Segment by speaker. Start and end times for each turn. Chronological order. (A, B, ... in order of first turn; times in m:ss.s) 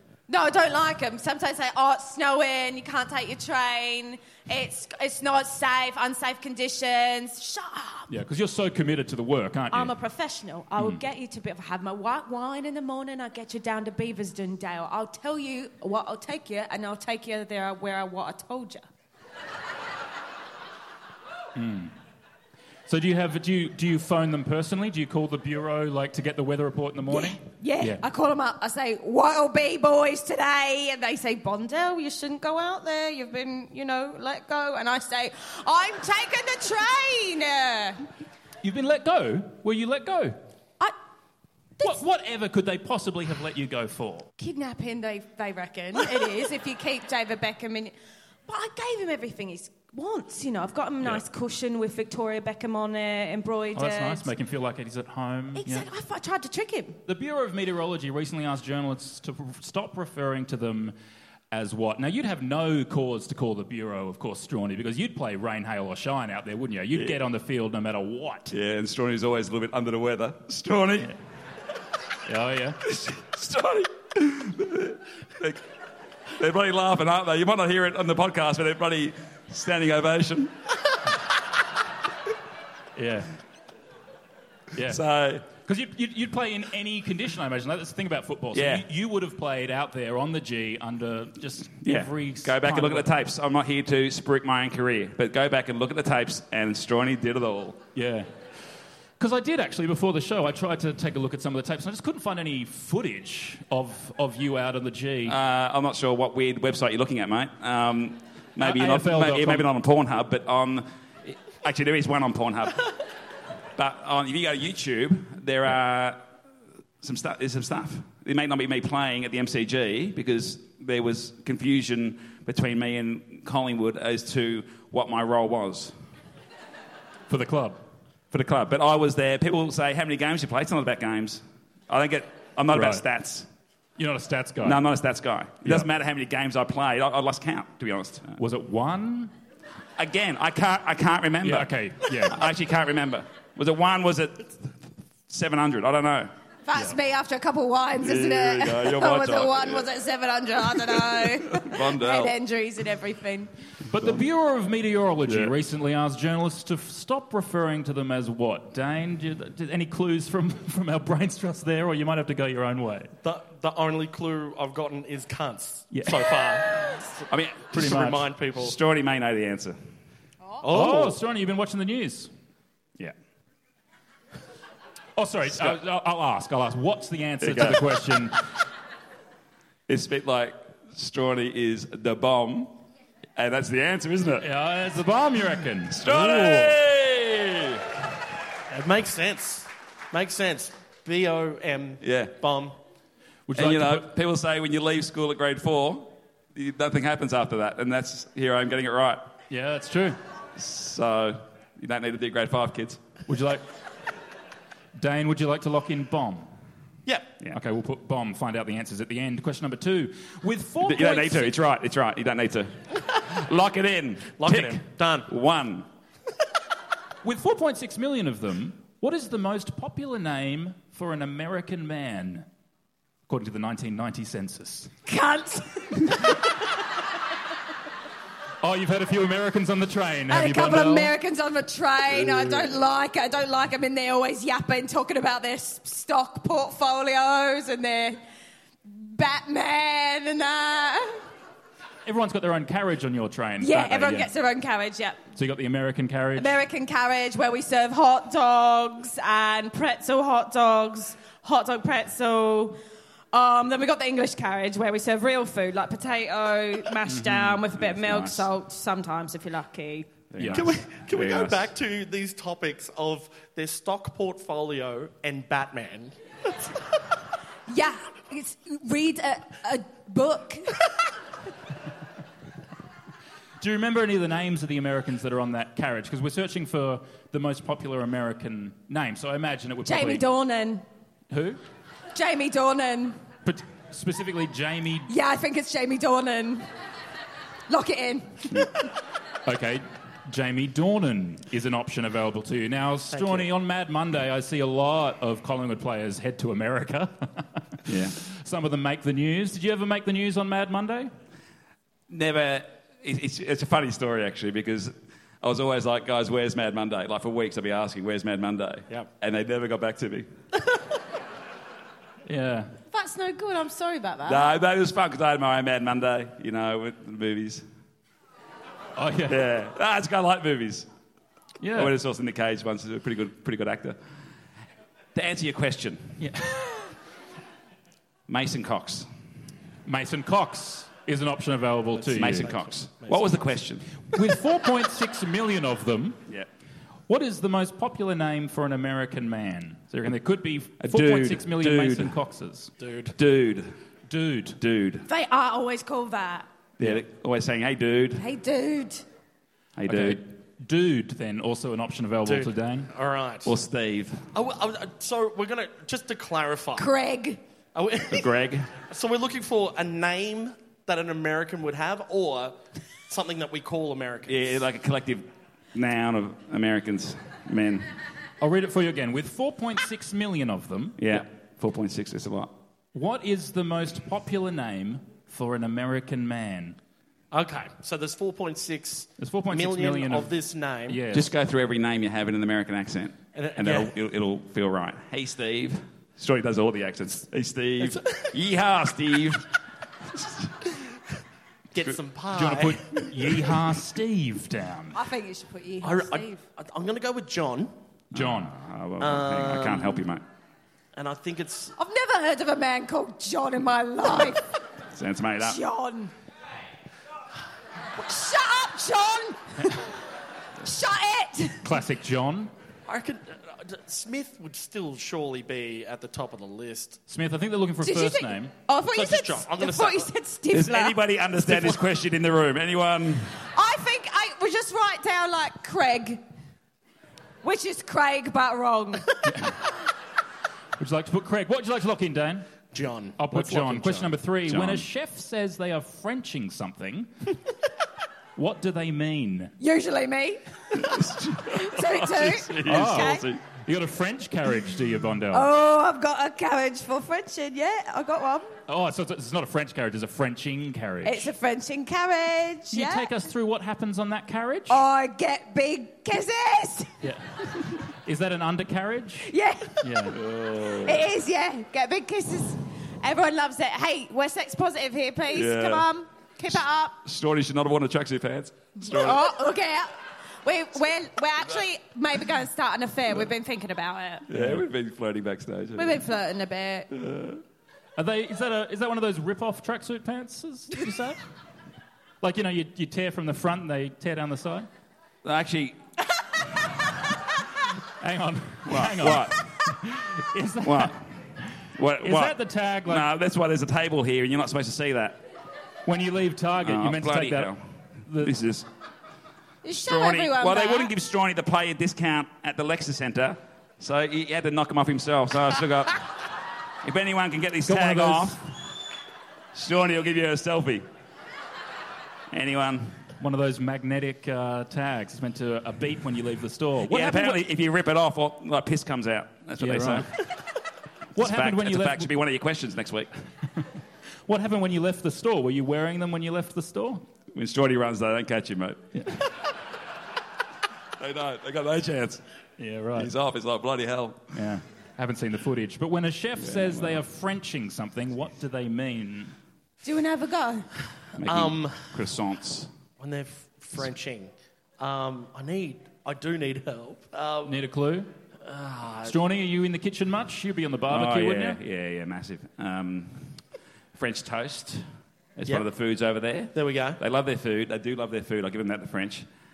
0:00.3-0:08.1 A
0:08.1-0:09.9 B
0:09.7-0:18.8 A
0:21.6-0:21.9 B
0:22.9-0:28.0 B
0:27.1-0:38.0 A
0:38.6-0:40.4 B
0:41.8-0:44.3 B
0:44.4-0:48.0 A
0:48.5-0:54.3 A
0:53.8-0:55.9 B
0:55.6-0:57.0 A
0:57.1-1:01.0 B
1:01.5-1:08.5 B
1:08.5-1:11.1 C
1:12.3-1:12.8 B
1:12.8-1:15.6 C
1:16.4-1:20.5 C
1:23.0-1:23.3 B
1:24.8-1:25.0 B
1:24.9-1:25.4 C
1:25.6-1:33.1 B
1:28.5-1:28.8 C
1:31.8-1:37.8 C
1:38.0-1:38.3 B
1:39.2-1:45.4 B
1:45.3-1:53.0 C
1:48.6-1:49.7 B
1:53.8-1:56.3 C
1:57.0-2:05.9 C
2:07.3-2:07.8 B
2:08.3-2:13.5 C
2:12.7-2:13.0 B
2:14.0-2:14.8 B
2:14.6-2:18.4 C
2:18.4-2:19.3 B
2:20.0-2:24.7 C
2:21.4-2:22.4 B
2:25.3-2:26.3 C
2:26.7-2:33.5 A
2:28.0-2:29.9 C
2:30.7-2:32.4 C
2:33.9-2:43.1 B
2:35.3-2:35.5 C
2:43.2-2:47.2 D
2:45.9-2:46.3 B
2:47.3-2:49.8 C
2:47.7-2:48.8 D
2:47.7-2:48.2 B
2:50.6-2:51.2 D
2:50.7-2:52.3 B
2:55.2-2:58.4 B
2:57.4-2:57.9 C
2:59.9-3:02.8 C
3:03.4-3:04.5 C
3:04.4-3:06.8 B
3:05.9-3:07.8 C
3:08.7-3:12.8 D
3:12.0-3:12.3 C
3:13.5-3:14.1 B
3:13.6-3:19.3 C
3:19.5-3:20.2 B
3:20.6-3:23.0 C
3:23.3-3:23.6 B
3:25.0-3:26.5 B
3:27.5-3:31.6 B
3:30.8-3:35.9 C
3:34.4-3:35.3 D
3:37.2-3:42.5 B
3:43.3-3:44.9 B
3:45.1-3:46.4 A
3:48.6-3:51.1 B
3:50.3-3:58.2 A
3:58.9-4:01.2 A
4:02.0-4:04.3 B
4:03.6-4:05.2 A
4:05.4-4:06.6 B
4:06.4-4:12.8 A
4:13.3-4:20.2 A
4:17.1-4:17.6 B
4:17.7-4:18.5 C
4:20.3-4:21.7 C
4:20.4-4:20.7 B
4:20.5-4:26.7 D
4:27.7-4:30.9 A
4:33.6-4:40.2 B
4:39.9-4:40.8 A
4:41.3-4:41.6 B
4:42.2-4:43.2 A
4:43.4-4:45.1 B
4:45.1-4:46.6 A
4:47.7-4:48.9 A
4:49.5-4:57.5 B
4:53.1-4:53.5 D
4:57.9-4:58.2 C
4:58.2-5:01.1 B
5:02.1-5:10.3 C
5:12.3-5:12.7 B
5:12.9-5:14.5 A
5:14.3-5:17.6 C
5:19.0-5:19.4 B
5:19.3-5:20.9 C
5:21.6-5:21.9 B
5:21.7-5:24.0 C
5:25.2-5:26.2 C
5:26.2-5:26.9 B
5:28.3-5:29.1 C
5:29.9-5:32.5 B
5:32.0-5:33.5 D
5:32.1-5:33.9 C
5:34.1-5:36.2 B
5:37.1-5:42.7 B
5:40.8-5:42.2 C
5:42.8-5:43.2 D
5:43.2-5:43.7 C
5:44.1-5:44.6 B
5:44.6-5:45.1 C
5:45.1-5:46.5 A
5:46.8-5:48.2 C
5:48.2-5:49.0 A
5:49.8-5:50.2 C
5:49.8-5:52.9 B
5:52.2-5:53.5 D
5:53.4-5:54.2 C
5:54.3-5:56.9 D
5:56.8-5:57.4 A
5:57.8-5:58.3 D
5:58.1-5:58.7 C
5:58.8-6:02.6 D
6:03.1-6:04.6 D
6:04.3-6:07.9 C
6:08.4-6:11.2 B
6:11.0-6:12.5 C
6:12.9-6:16.8 B
6:17.3-6:21.0 D
6:19.2-6:20.3 B
6:20.9-6:21.3 B
6:21.1-6:29.5 C
6:23.4-6:24.0 D
6:27.8-6:28.3 D
6:30.2-6:30.5 C
6:31.7-6:32.8 D
6:32.3-6:35.0 B
6:34.9-6:36.4 A
6:35.8-6:37.7 D
6:38.1-6:38.5 B
6:38.1-6:40.2 C
6:39.0-6:40.0 D
6:41.0-6:41.7 D
6:41.8-6:44.6 A
6:44.9-6:45.6 C
6:45.4-6:46.1 A
6:48.0-6:49.9 A
6:50.6-6:51.6 A
6:51.6-6:52.5 B
6:52.9-6:57.0 D
6:57.1-6:58.5 B
6:57.8-7:01.0 A
6:58.9-7:00.1 D
7:00.5-7:03.3 C
7:03.5-7:06.2 A
7:07.4-7:09.1 A
7:09.3-7:09.6 B
7:10.8-7:12.5 B
7:12.7-7:14.2 D
7:13.2-7:17.1 B
7:14.5-7:14.9 C
7:18.4-7:19.5 B
7:19.6-7:23.2 A
7:20.8-7:23.4 C
7:22.6-7:25.5 B
7:25.3-7:28.5 A
7:28.7-7:31.3 B
7:31.0-7:33.1 A
7:32.7-7:34.8 B
7:34.7-7:36.9 A
7:37.0-7:37.3 B
7:38.0-7:39.3 B
7:39.3-7:40.1 A
7:39.8-7:40.2 B
7:40.1-7:41.1 C
7:40.8-7:47.0 A
7:45.3-7:45.9 C
7:47.0-7:49.3 C
7:48.8-7:49.9 A
7:50.4-7:54.3 A
7:54.3-7:56.0 C
7:54.3-7:54.7 B
7:55.8-7:56.9 A
7:56.9-7:57.4 C
7:58.0-8:01.2 B
8:02.2-8:04.7 B
8:05.2-8:05.8 C
8:08.0-8:10.9 B
8:08.7-8:09.5 C
8:10.6-8:11.2 C
8:11.8-8:15.2 C
8:12.0-8:13.1 B
8:15.9-8:17.5 B
8:16.6-8:17.6 C
8:18.1-8:18.3 B
8:18.2-8:18.7 C
8:19.6-8:20.9 A
8:19.7-8:26.1 C
8:26.8-8:28.4 C
8:27.6-8:28.4 B
8:29.5-8:30.8 C
8:32.3-8:33.0 C
8:33.2-8:37.4 B
8:36.9-8:40.2 C
8:39.6-8:40.3 B
8:41.2-8:42.1 B
8:41.2-8:43.1 C
8:44.3-8:47.0 B
8:47.3-8:49.0 C
8:48.9-8:49.2 B
8:51.0-8:52.2 C
8:52.6-8:53.1 B
8:53.0-8:54.4 C
8:54.3-8:59.4 B
8:56.4-8:57.0 C
8:59.8-9:00.7 A
9:01.2-9:02.7 C
9:01.2-9:01.9 D
9:03.0-9:07.6 D
9:07.4-9:08.1 B
9:08.4-9:09.2 D
9:09.0-9:11.6 B
9:10.9-9:13.4 C
9:14.0-9:14.9 C
9:15.4-9:19.3 C
9:16.5-9:17.0 D